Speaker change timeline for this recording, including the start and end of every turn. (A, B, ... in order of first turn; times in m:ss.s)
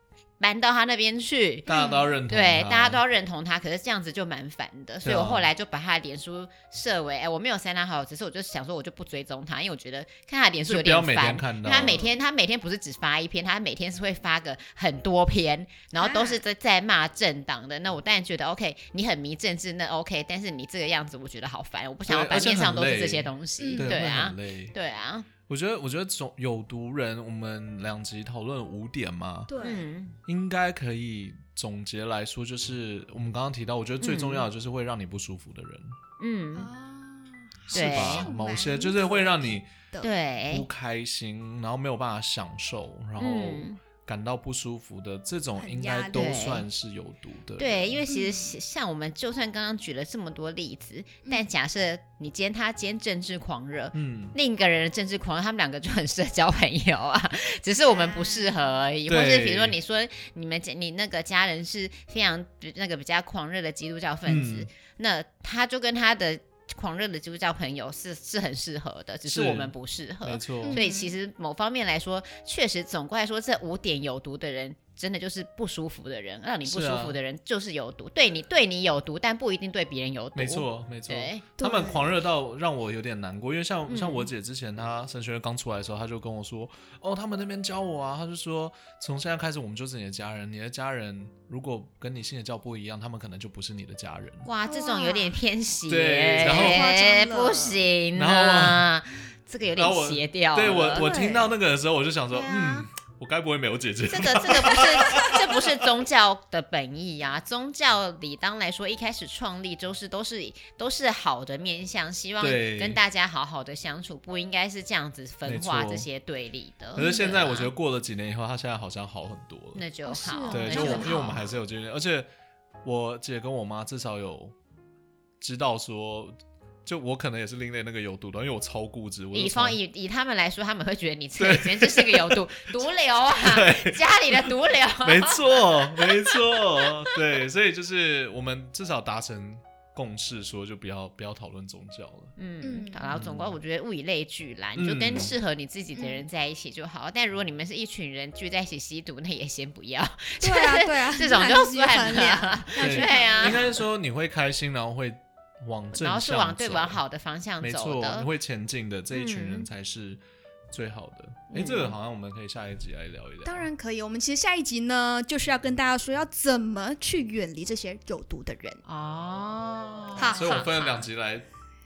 0:00.4-0:01.7 A
0:01.6-0:03.0 B
0:01.7-0:02.1 C
0:02.3-0:25.3 A
0:05.0-0:05.5 B
0:10.6-0:12.0 B
0:11.7-0:12.1 C
0:16.0-0:16.4 C
0:22.0-0:24.7 B
0:23.6-0:24.0 C
0:25.5-0:29.5 B
0:29.5-0:29.8 C
0:29.6-0:30.2 A
0:30.2-0:36.0 B
0:34.0-0:34.4 A
0:36.2-0:36.7 A
0:36.5-0:40.1 C
0:37.7-0:39.7 B
0:37.7-0:38.3 A
0:40.0-0:40.6 A
0:40.5-0:48.0 B
0:43.2-0:43.8 A
0:45.6-0:46.5 C
0:46.1-0:46.6 A
0:47.6-1:21.4 A
0:48.1-0:48.5 C
0:53.9-0:54.4 B
0:57.9-0:58.8 C
0:59.1-0:59.8 B
1:04.3-1:04.7 B
1:09.2-1:10.8 B
1:10.6-1:11.1 C
1:16.6-1:17.2 B
1:20.3-1:34.5 B
1:21.6-1:22.1 C
1:23.9-1:24.3 A
1:34.4-1:41.3 A
1:34.6-1:35.4 C
1:35.9-1:36.9 B
1:36.4-1:37.8 C
1:38.1-1:38.9 B
1:39.8-1:45.8 B
1:40.9-1:41.5 C
1:42.3-1:42.9 C
1:44.0-1:57.7 A
1:52.4-1:53.0 B
1:55.4-1:56.1 B
1:56.9-1:59.8 B
1:57.0-1:57.4 C
1:59.7-2:01.5 A
2:00.0-2:01.4 C
2:00.5-2:02.3 B
2:02.8-2:04.6 B
2:05.4-2:09.8 B
2:09.3-2:17.1 A
2:11.4-2:22.3 B
2:22.4-2:33.6 A
2:22.6-2:23.1 C
2:23.1-2:23.5 B
2:24.8-2:25.3 B
2:26.0-2:26.2 C
2:30.4-2:33.8 C
2:32.8-2:37.0 B
2:35.9-2:38.3 A
2:37.6-2:43.7 B
2:39.1-2:39.7 A
2:41.5-2:41.9 A
2:43.4-2:48.8 C
2:48.8-2:51.0 A
2:50.2-2:50.6 C
2:50.2-2:51.4 B